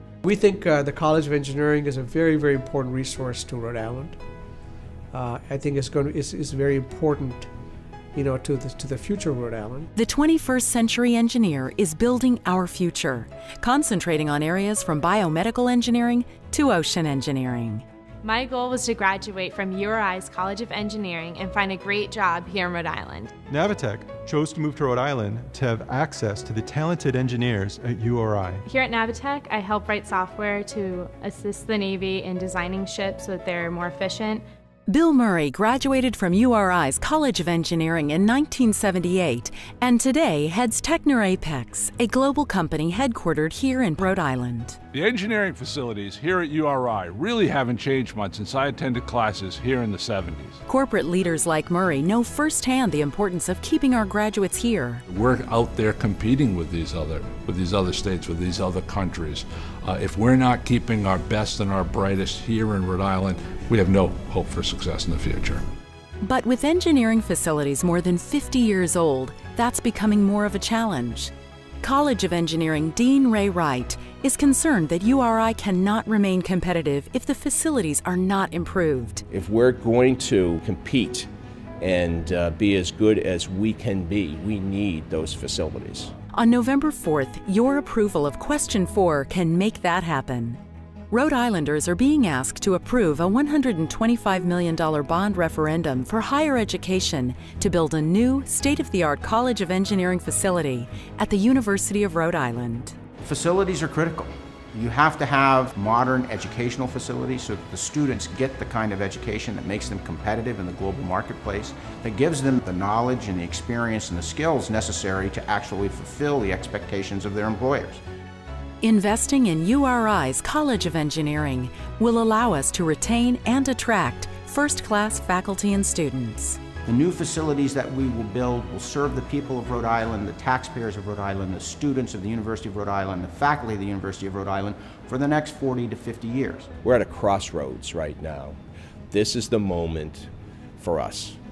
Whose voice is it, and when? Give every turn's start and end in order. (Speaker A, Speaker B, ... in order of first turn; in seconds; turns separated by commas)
Speaker A: 0.2-4.2, Speaker A: 5.1-7.5, Speaker A: 8.1-9.9, Speaker B: 9.9-17.8, Speaker C: 18.2-23.3, Speaker D: 23.5-28.6, Speaker C: 28.7-34.5, Speaker B: 34.9-44.8, Speaker E: 44.9-50.6, Speaker B: 50.7-55.0, Speaker E: 55.1-65.6, Speaker B: 66.2-79.2, Speaker F: 79.3-81.3, Speaker F: 81.8-86.1, Speaker B: 86.3-102.9, Speaker G: 103.2-118.0, Speaker B: 118.8-126.6, Speaker G: 126.8-136.7, Speaker F: 136.8-138.6, Speaker F: 139.1-141.4